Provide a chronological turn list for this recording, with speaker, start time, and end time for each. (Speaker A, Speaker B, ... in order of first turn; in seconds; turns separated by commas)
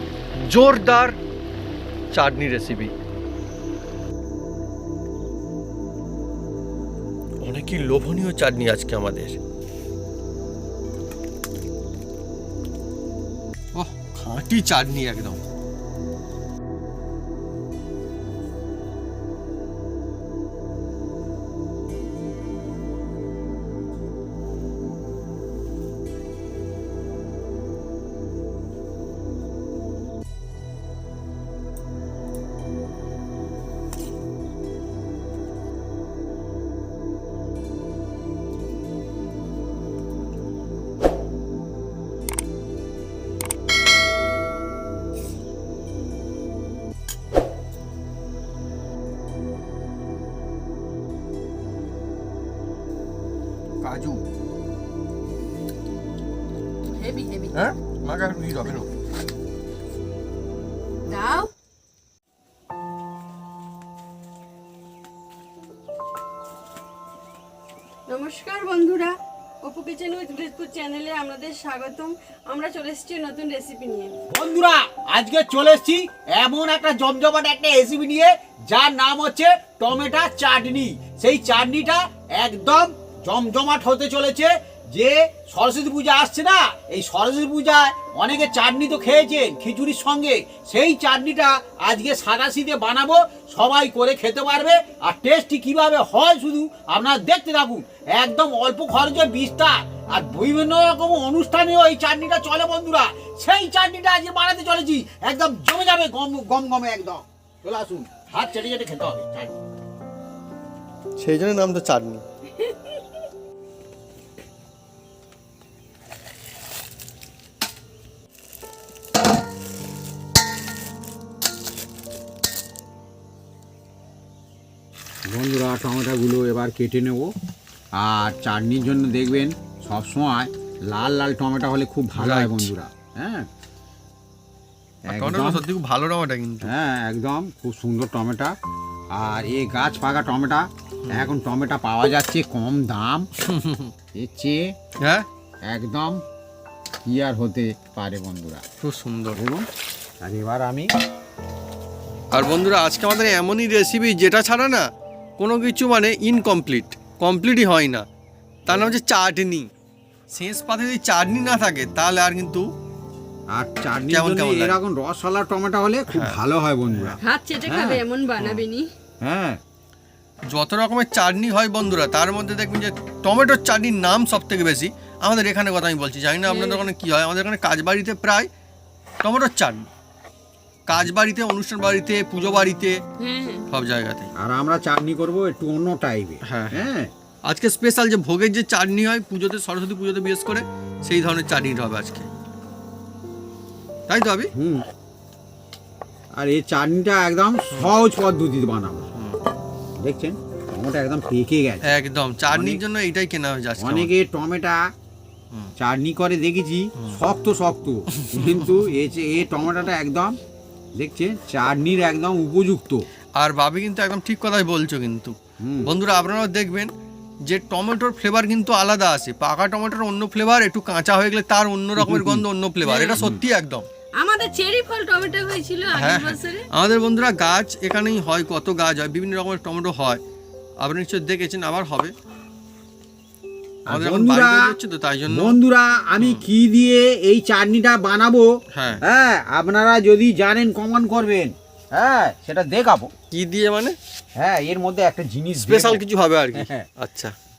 Speaker A: 0.4-1.1, Speaker A: 2.1-2.9, Speaker A: 7.4-9.4, Speaker A: 13.7-15.4, Speaker A: 53.8-54.2, Speaker B: 57.0-57.5, Speaker A: 57.5-58.9, Speaker B: 61.1-61.5, Speaker B: 68.1-74.2, Speaker C: 74.3-109.6, Speaker A: 111.2-112.2, Speaker C: 125.3-127.3, Speaker C: 128.0-133.5, Speaker A: 132.2-132.7, Speaker C: 135.1-135.6, Speaker A: 135.1-136.7, Speaker C: 136.6-138.6, Speaker C: 139.1-143.3, Speaker A: 141.0-141.3, Speaker A: 143.4-143.9, Speaker C: 144.1-144.7, Speaker C: 145.7-146.2, Speaker C: 147.0-148.6, Speaker A: 148.8-149.4, Speaker C: 149.3-149.6, Speaker C: 150.2-150.9, Speaker A: 152.3-154.8, Speaker A: 155.4-158.0, Speaker A: 158.7-159.7, Speaker C: 158.7-158.9, Speaker A: 160.3-162.6, Speaker C: 163.5-168.0, Speaker A: 164.1-164.8, Speaker A: 166.1-166.4, Speaker A: 166.9-167.2, Speaker B: 167.2-168.9, Speaker C: 169.2-169.6, Speaker A: 170.5-178.5, Speaker B: 176.5-176.9, Speaker A: 179.2-179.9, Speaker A: 180.9-183.0, Speaker B: 183.2-183.6, Speaker A: 183.7-184.3, Speaker C: 184.4-187.1, Speaker A: 186.4-186.9, Speaker A: 187.4-192.3, Speaker A: 194.1-194.5, Speaker C: 194.5-194.8, Speaker C: 196.3-199.1, Speaker C: 200.0-201.8, Speaker A: 201.8-204.1, Speaker C: 202.5-202.8, Speaker C: 203.8-204.8, Speaker C: 205.8-210.4, Speaker A: 208.1-208.8, Speaker C: 211.0-213.1, Speaker A: 213.4-216.9, Speaker C: 215.6-215.9, Speaker A: 217.4-223.8, Speaker C: 222.0-222.4, Speaker B: 222.8-223.2, Speaker B: 224.2-226.7, Speaker A: 225.9-230.2, Speaker A: 230.8-232.1, Speaker C: 233.9-234.8, Speaker A: 233.9-235.6, Speaker C: 235.3-238.5, Speaker A: 236.2-236.4, Speaker A: 238.7-239.0, Speaker C: 239.0-243.1, Speaker A: 243.3-243.9, Speaker C: 244.4-246.0, Speaker A: 245.6-247.3, Speaker C: 246.5-246.9